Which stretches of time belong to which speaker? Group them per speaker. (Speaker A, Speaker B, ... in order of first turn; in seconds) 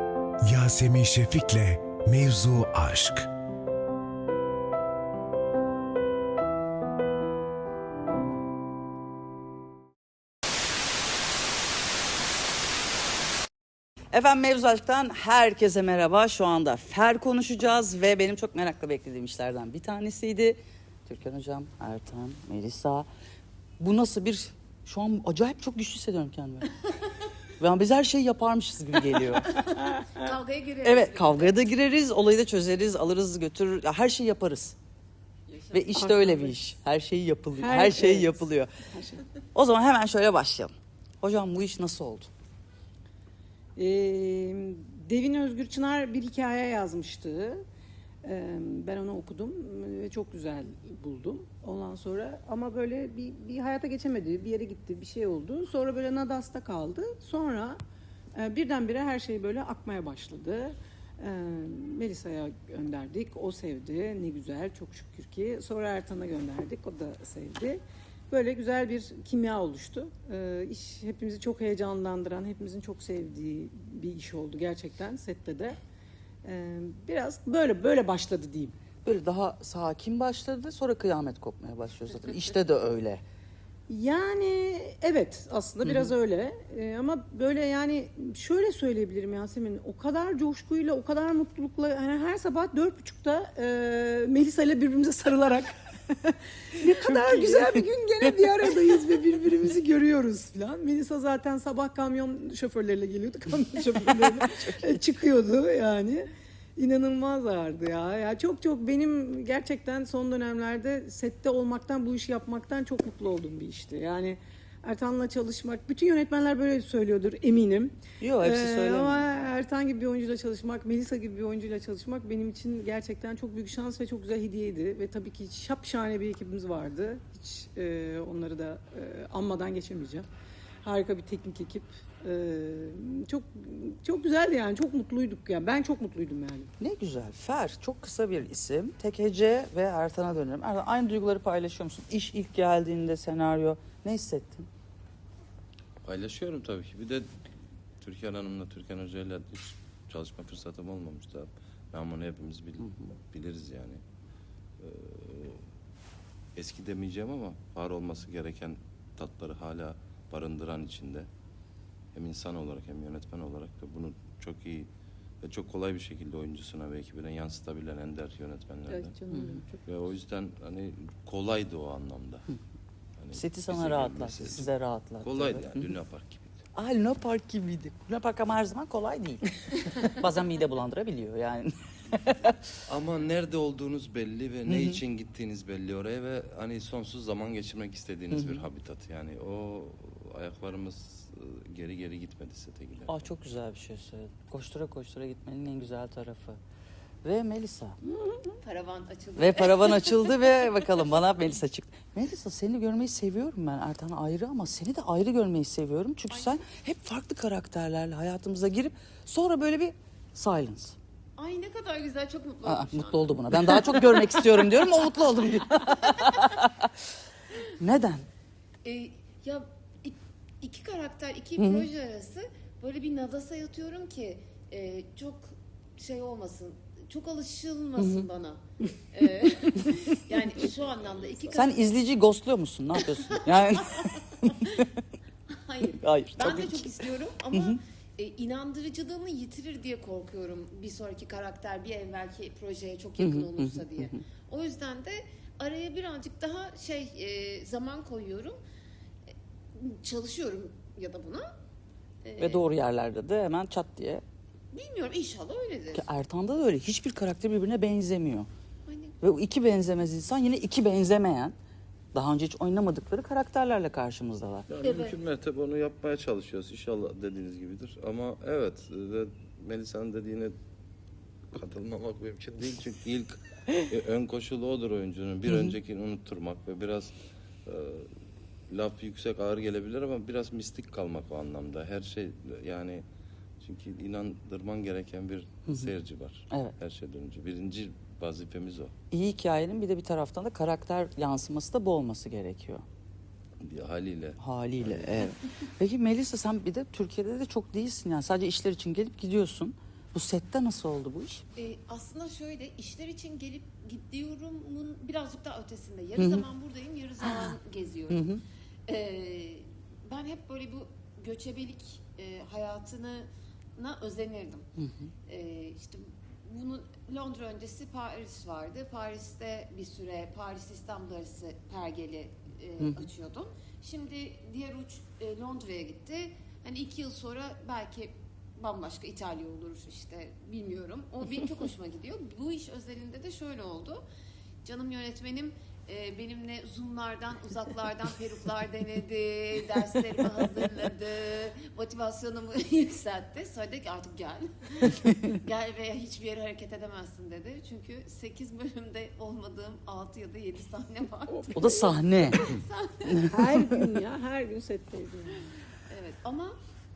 Speaker A: 0.4-3.3
Speaker B: 14.1-23.1, 23.8-26.7, 27.6-29.4, 30.8-34.8, 35.7-38.7, 39.5-42.3, 79.0-83.2, 96.8-97.8, 104.0-105.0, 118.2-119.3, 136.8-144.7, 169.3-169.6, 173.3-175.9, 176.8-182.6, 184.7-185.0, 188.3-188.6, 193.1-196.6, 197.2-198.0, 199.4-210.9, 212.6-216.9, 217.8-218.2, 221.6-221.9, 228.0-228.2, 231.5-234.9, 236.0-237.8, 243.2-244.2, 252.4-254.2, 255.9-258.5, 259.2-261.6, 262.1-264.7, 275.5-275.7, 289.1-292.8, 294.4-301.4, 306.2-306.4, 307.2-307.6, 308.1-308.4, 314.8-315.1, 351.5-352.4, 353.1-353.7
Speaker C: 29.5-31.6, 35.5-35.8, 198.6-200.8, 206.3-206.6, 211.3-214.1, 216.1-216.6, 218.8-231.8, 232.9-234.8, 235.5-248.6, 249.7-251.5, 252.2-252.6, 254.7-256.1, 258.9-259.2, 264.8-265.2, 301.5-308.3, 308.9-314.7, 315.2-334.0, 334.6-353.3, 355.9-356.5
Speaker D: 35.9-36.6, 37.6-39.2, 43.8-47.6, 48.2-57.8, 58.3-75.8, 76.4-78.7, 83.9-130.2, 130.8-136.7, 168.9-169.8, 198.1-198.6, 351.4-351.9, 353.3-355.5
Speaker E: 146.0-147.3, 148.0-154.0, 154.8-155.6, 156.6-161.3, 162.1-164.9, 165.4-169.2, 169.8-172.5, 173.2-174.7, 175.2-176.6, 182.8-193.3, 264.7-270.5, 271.5-277.1, 277.6-278.1, 278.7-283.0, 283.6-288.9, 293.6-295.3